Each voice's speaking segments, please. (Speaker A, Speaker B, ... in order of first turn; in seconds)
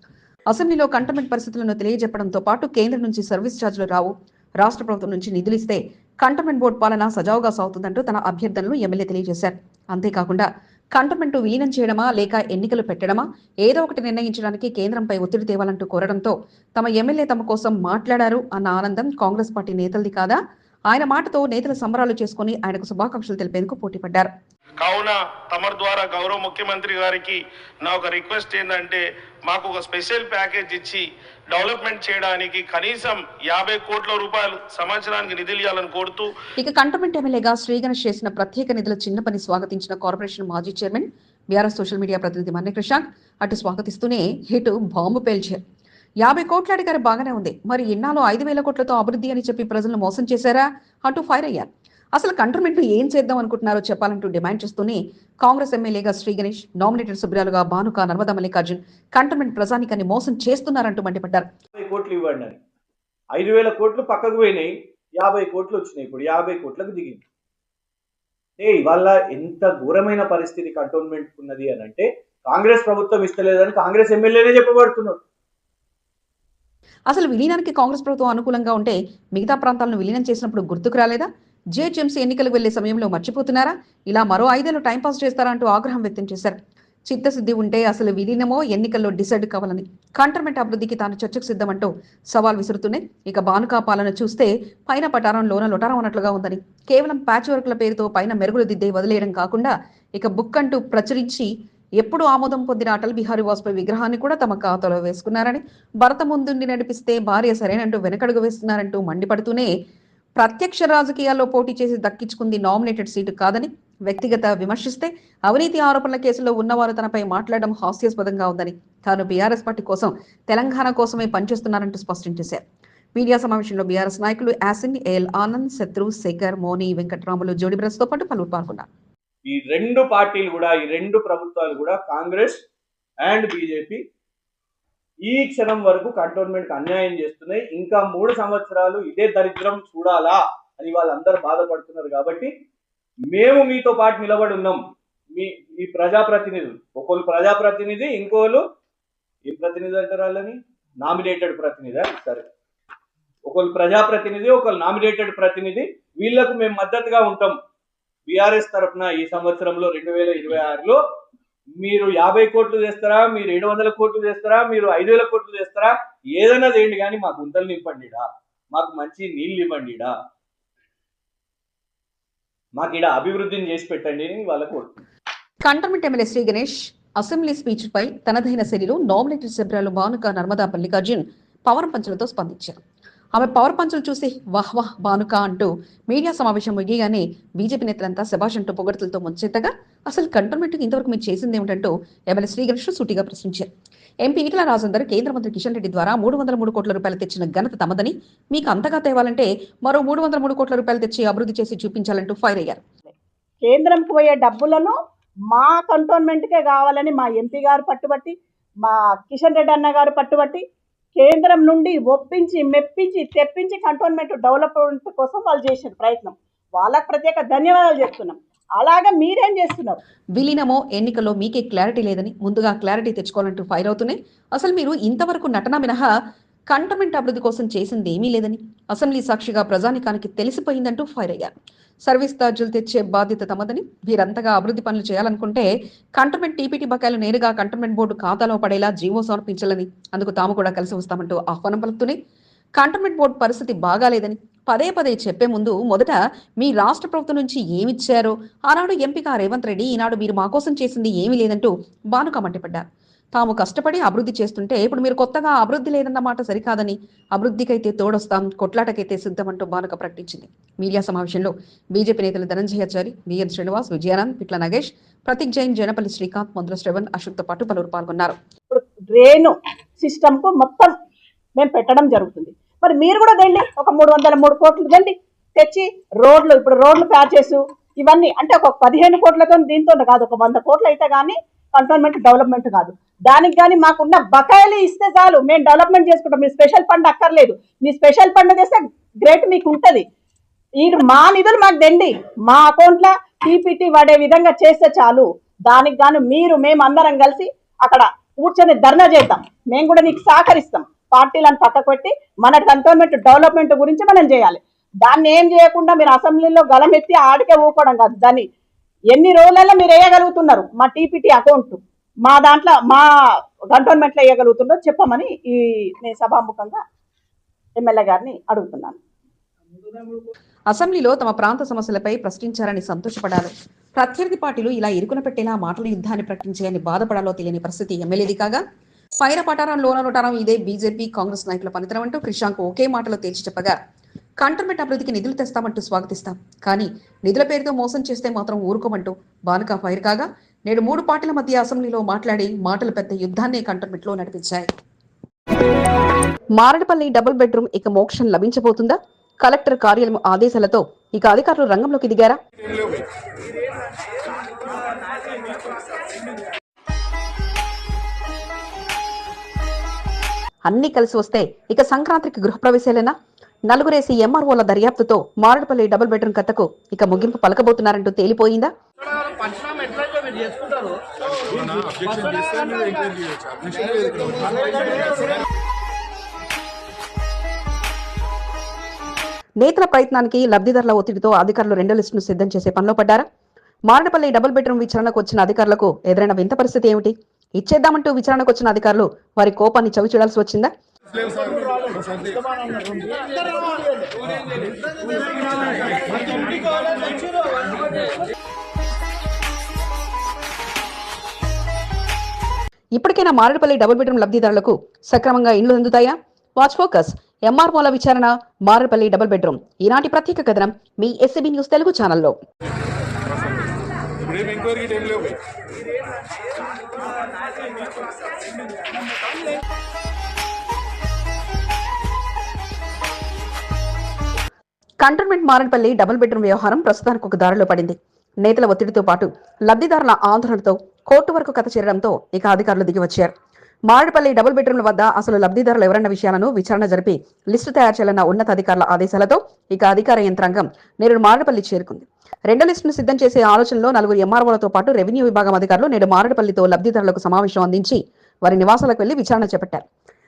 Speaker A: 0.5-24.3, 36.6-45.6, 46.2-61.5, 77.1-86.6, 87.1-109.7, 110.4-122.6, 123.2-128.9, 175.6-182.8, 183.3-193.7, 194.2-202.8, 220.3-226.1, 226.7-231.5, 232.1-242.2, 242.8-268.4, 320.7-328.6, 329.2-333.8, 334.4-344.7, 346.5-352.4, 360.7-363.1, 363.7-368.7, 379.6-383.2, 383.9-390.7, 402.9-412.4, 425.0-433.3, 433.9-449.8
Speaker B: 24.8-36.3
Speaker C: 61.8-62.6, 63.3-67.2, 68.6-75.2, 129.4-132.6, 133.2-134.0, 135.3-142.5, 143.3-144.8, 145.3-148.6, 149.4-152.5, 153.4-157.6, 158.3-161.0, 161.8-170.1, 172.8-174.9
Speaker D: 203.6-205.0, 205.5-210.6, 211.2-220.0, 268.7-270.9, 271.6-290.1, 290.8-308.5, 309.1-313.1, 313.7-316.8, 317.8-319.0
Speaker E: 371.4-375.3, 391.5-392.3, 415.0-415.3